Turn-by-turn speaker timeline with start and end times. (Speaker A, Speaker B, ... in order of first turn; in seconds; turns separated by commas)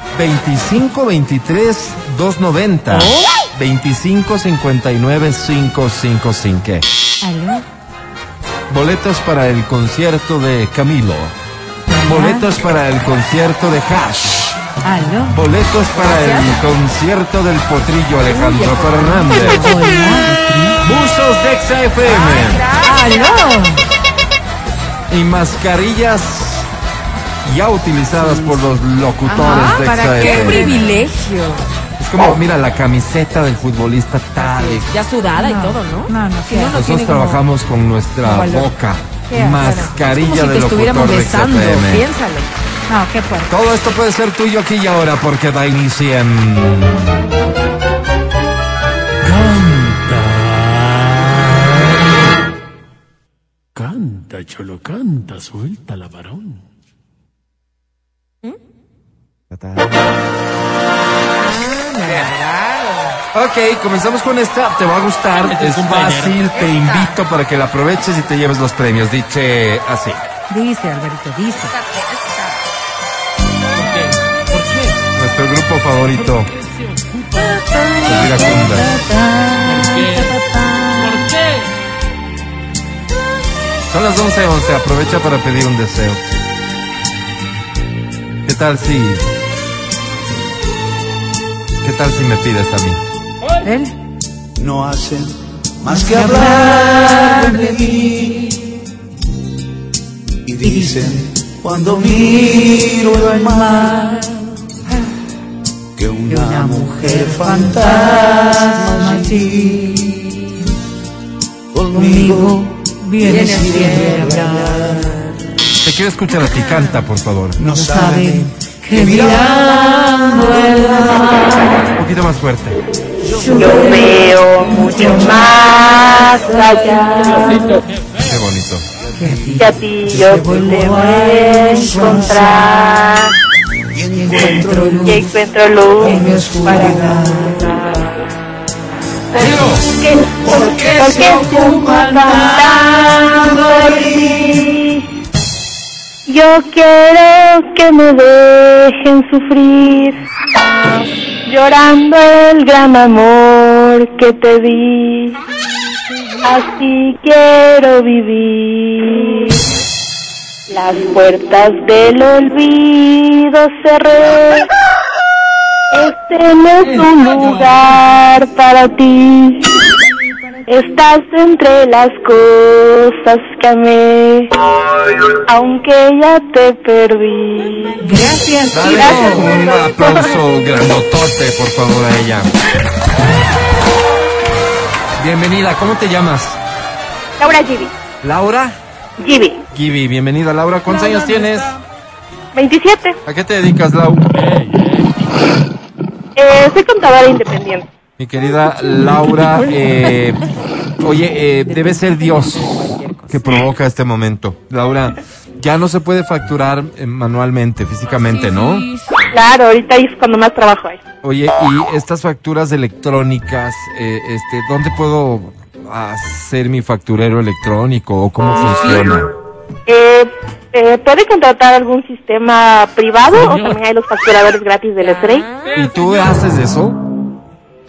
Speaker A: 0.1-6.9, Speaker B: 7.2-7.6, Speaker A: 8.7-11.3, Speaker B: 11.9-12.4, Speaker A: 12.1-14.7, Speaker B: 14.8-15.4, Speaker A: 15.3-19.8, Speaker C: 15.9-16.6, Speaker C: 18.2-19.6, Speaker B: 19.3-20.3, Speaker D: 20.2-20.8, Speaker A: 20.8-22.6, Speaker C: 22.0-23.5, Speaker B: 22.8-23.8, Speaker A: 25.1-26.7, Speaker A: 27.4-30.6, Speaker C: 29.2-31.7, Speaker B: 29.7-31.0, Speaker A: 32.0-35.0, Speaker C: 34.4-37.4, Speaker B: 35.4-36.8, Speaker A: 36.7-42.1, Speaker C: 38.2-38.7, Speaker B: 39.3-39.9, Speaker C: 39.6-42.5, Speaker B: 42.9-43.5, Speaker A: 43.5-47.2, Speaker D: 49.2-51.9, Speaker D: 53.8-56.6, Speaker A: 59.5-60.0, Speaker C: 61.4-63.2, Speaker A: 63.3-70.2, Speaker D: 65.3-66.5, Speaker C: 66.5-67.2, Speaker B: 70.5-71.7, Speaker C: 71.5-72.6, Speaker D: 73.7-75.0, Speaker A: 75.2-76.5, Speaker D: 76.1-78.8, Speaker A: 78.0-78.9, Speaker B: 78.1-81.2, Speaker D: 79.6-80.4, Speaker D: 81.0-81.7, Speaker A: 83.9-86.2, Speaker A: 88.5-89.2, Speaker A: 91.8-93.0, Speaker B: 93.6-93.9, Speaker E: 94.6-98.4, Speaker B: 95.9-98.0, Speaker E: 100.5-104.0, Speaker B: 100.6-101.1, Speaker B: 102.4-104.4, Speaker E: 106.0-110.2, Speaker B: 106.3-110.1, Speaker E: 111.7-112.7, Speaker B: 111.9-114.8, Speaker E: 113.2-115.3, Speaker C: 113.2-114.2, Speaker A: 115.8-117.6, Speaker C: 116.3-117.1, Speaker E: 117.6-121.4, Speaker B: 117.7-122.0, Speaker A: 122.0-122.8, Speaker E: 123.3-124.2, Speaker B: 123.3-125.5, Speaker F: 123.6-127.8, Speaker E: 125.0-125.4, Speaker B: 126.5-127.4, Speaker D: 127.3-128.4, Speaker A: 128.2-128.9, Speaker B: 129.2-132.8, Speaker F: 129.6-133.3, Speaker E: 132.1-132.4, Speaker E: 133.9-135.3, Speaker B: 134.1-135.3, Speaker F: 135.0-137.1, Speaker B: 136.0-137.6, Speaker E: 136.0-137.7, Speaker D: 139.4-139.8, Speaker F: 139.4-145.0, Speaker E: 140.4-142.5, Speaker B: 141.4-144.6, Speaker F: 146.3-150.2, Speaker F: 151.5-155.4, Speaker F: 156.4-159.6, Speaker F: 160.7-164.7, Speaker F: 165.9-169.8, Speaker D: 166.8-168.1, Speaker F: 170.7-174.5, Speaker F: 175.5-180.3, Speaker B: 178.0-179.5, Speaker A: 178.7-182.5, Speaker A: 185.2-186.6, Speaker F: 187.4-187.9, Speaker A: 188.2-188.8, Speaker F: 189.2-189.6, Speaker A: 189.7-191.8, Speaker D: 190.9-191.8, Speaker F: 192.6-193.2, Speaker A: 193.3-194.3, Speaker D: 194.3-195.2, Speaker F: 196.4-197.8, Speaker A: 198.2-200.4, Speaker D: 198.8-200.1, Speaker A: 201.0-208.9, Speaker C: 201.6-203.6, Speaker C: 208.1-209.2, Speaker F: 209.3-211.0, Speaker A: 211.2-219.3, Speaker C: 218.6-219.1, Speaker F: 219.9-225.5, Speaker D: 223.3-223.8, Speaker C: 225.0-225.7, Speaker D: 225.6-226.4, Speaker A: 225.7-227.1